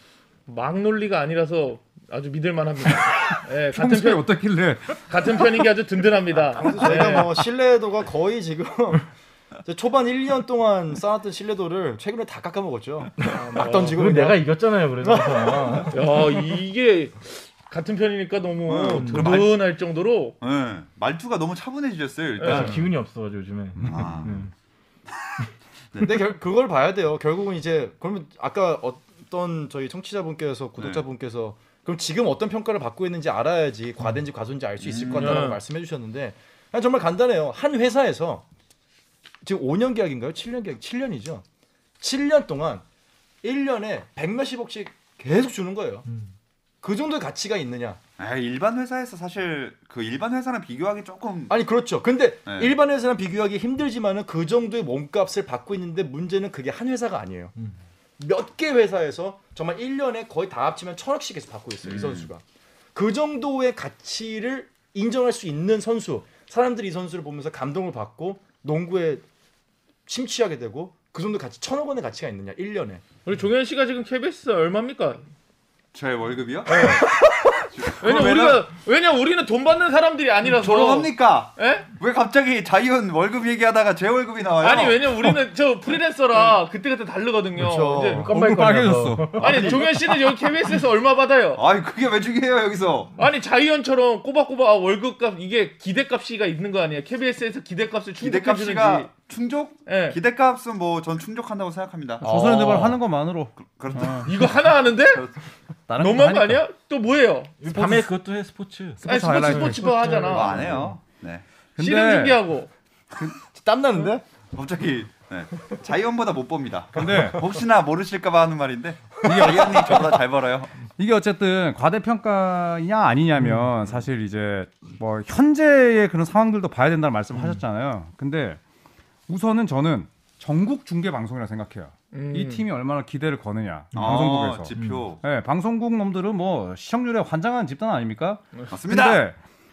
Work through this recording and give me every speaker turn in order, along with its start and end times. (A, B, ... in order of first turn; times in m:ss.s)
0:00.5-0:04.3 A
0:03.3-0:05.6 B
0:05.0-0:07.4 A
0:06.6-0:09.1 C
0:09.6-0:14.5 C
0:13.3-0:14.0 A
0:13.9-0:16.1 D
0:15.0-0:16.0 C
0:15.9-0:20.4 A
0:18.6-0:19.6 E
0:18.9-0:19.4 D
0:20.4-0:22.8 E
0:22.4-0:22.7 A
0:22.4-0:24.5 D
0:23.8-0:24.2 B
0:23.8-0:24.4 E
0:25.9-0:26.2 E
0:26.0-0:38.4 C
0:30.8-0:31.0 E
0:34.8-0:35.5 E
0:35.1-0:35.6 A
0:39.4-0:41.4 C
0:42.0-0:42.8 C
0:43.4-0:46.0 C
0:46.1-0:46.3 D
0:46.8-0:48.0 C
0:48.2-0:51.6 E
0:51.5-0:57.5 C
0:52.4-0:52.7 E
0:58.2-1:02.4 C
1:01.8-1:02.3 E
1:02.9-1:09.2 C
1:10.0-1:13.0 C
1:13.2-1:15.2 A
1:15.9-1:18.7 E
1:16.7-1:17.2 A
1:18.0-1:21.9 A
1:20.4-1:25.1 E
1:24.6-1:28.3 A
1:27.6-1:28.3 C
1:28.1-1:29.7 D
1:28.2-1:29.8 B
1:29.4-1:31.6 A
1:29.4-1:29.7 E
1:31.6-1:33.1 E
1:33.2-1:39.1 A
1:38.2-1:42.9 E
1:39.9-1:40.2 A
1:42.2-1:43.0 C
1:42.2-1:44.3 B
1:43.6-1:44.3 E
1:44.2-1:45.2 A
1:45.9-1:46.6 B
1:46.0-1:47.6 A
1:47.6-1:51.0 D
1:47.7-1:48.1 B
1:49.0-1:50.1 B
1:49.0-1:50.7 A
1:50.2-1:51.4 E
1:51.8-1:52.4 B
1:51.8-1:52.7 A
1:53.4-1:54.2 C
1:54.5-2:00.7 E
1:56.9-1:57.4 B
1:59.2-2:00.2 B
2:01.0-2:08.6 B
2:03.4-2:03.7 D
2:07.3-2:07.6 D
2:09.3-2:19.4 B
2:12.1-2:12.6 A
2:13.9-2:15.1 D
2:13.9-2:15.2 E
2:18.7-2:19.2 E